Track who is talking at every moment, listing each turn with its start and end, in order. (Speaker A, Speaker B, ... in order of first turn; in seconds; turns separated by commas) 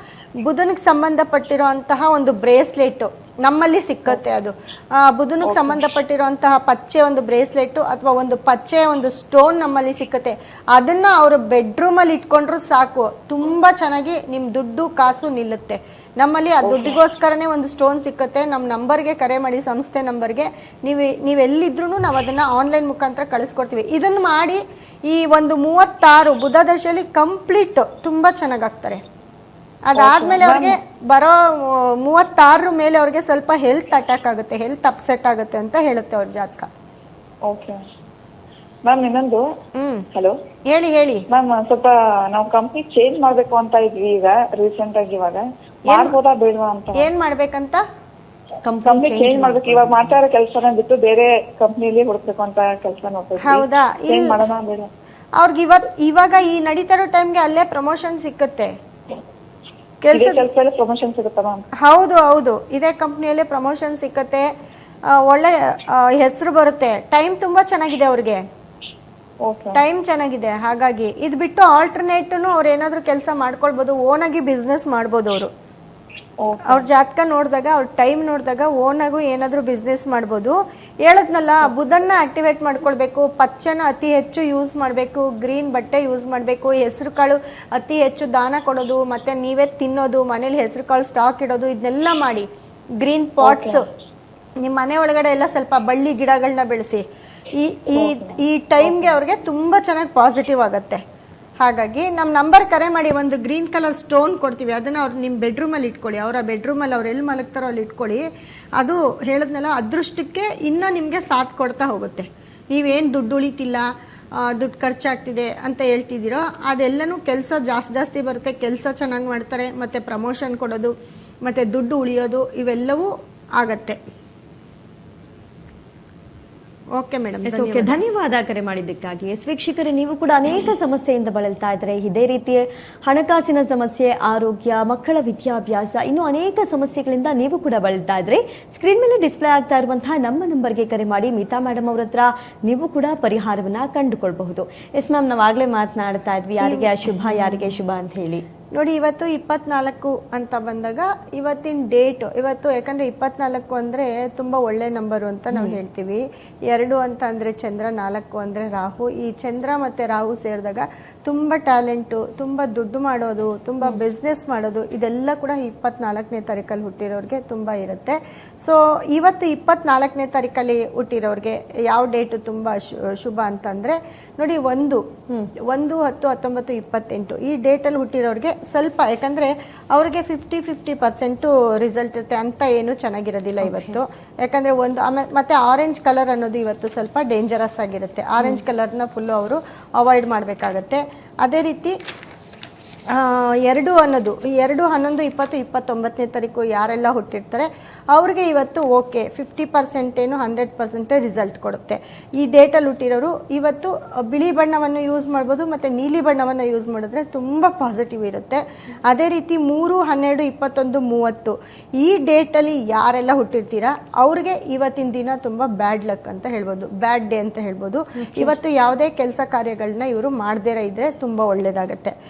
Speaker A: 0.4-29.0, Speaker B: 5.4-5.8, Speaker B: 16.6-17.0, Speaker A: 29.9-36.7, Speaker B: 29.9-30.7, Speaker B: 37.5-37.8, Speaker B: 38.9-39.4, Speaker A: 39.7-40.0, Speaker A: 40.7-41.2, Speaker B: 41.3-47.0, Speaker A: 45.9-46.1, Speaker A: 46.9-47.8, Speaker C: 48.6-50.1, Speaker B: 48.8-54.9, Speaker A: 53.4-54.4, Speaker A: 55.3-58.7, Speaker A: 60.0-60.4, Speaker B: 60.1-61.6, Speaker A: 61.8-64.5, Speaker A: 65.1-68.4, Speaker B: 69.5-69.8, Speaker A: 69.8-75.5, Speaker B: 76.4-76.8, Speaker A: 76.7-92.5, Speaker A: 93.0-93.8, Speaker B: 93.4-93.8, Speaker A: 94.6-97.0, Speaker A: 97.5-101.0, Speaker B: 97.9-99.1, Speaker A: 101.6-113.8, Speaker A: 114.4-120.9, Speaker A: 121.4-124.0, Speaker A: 126.9-128.0, Speaker C: 127.5-148.4, Speaker A: 146.6-147.7, Speaker A: 148.7-175.0, Speaker A: 175.7-191.9, Speaker C: 183.6-184.0, Speaker A: 193.1-222.1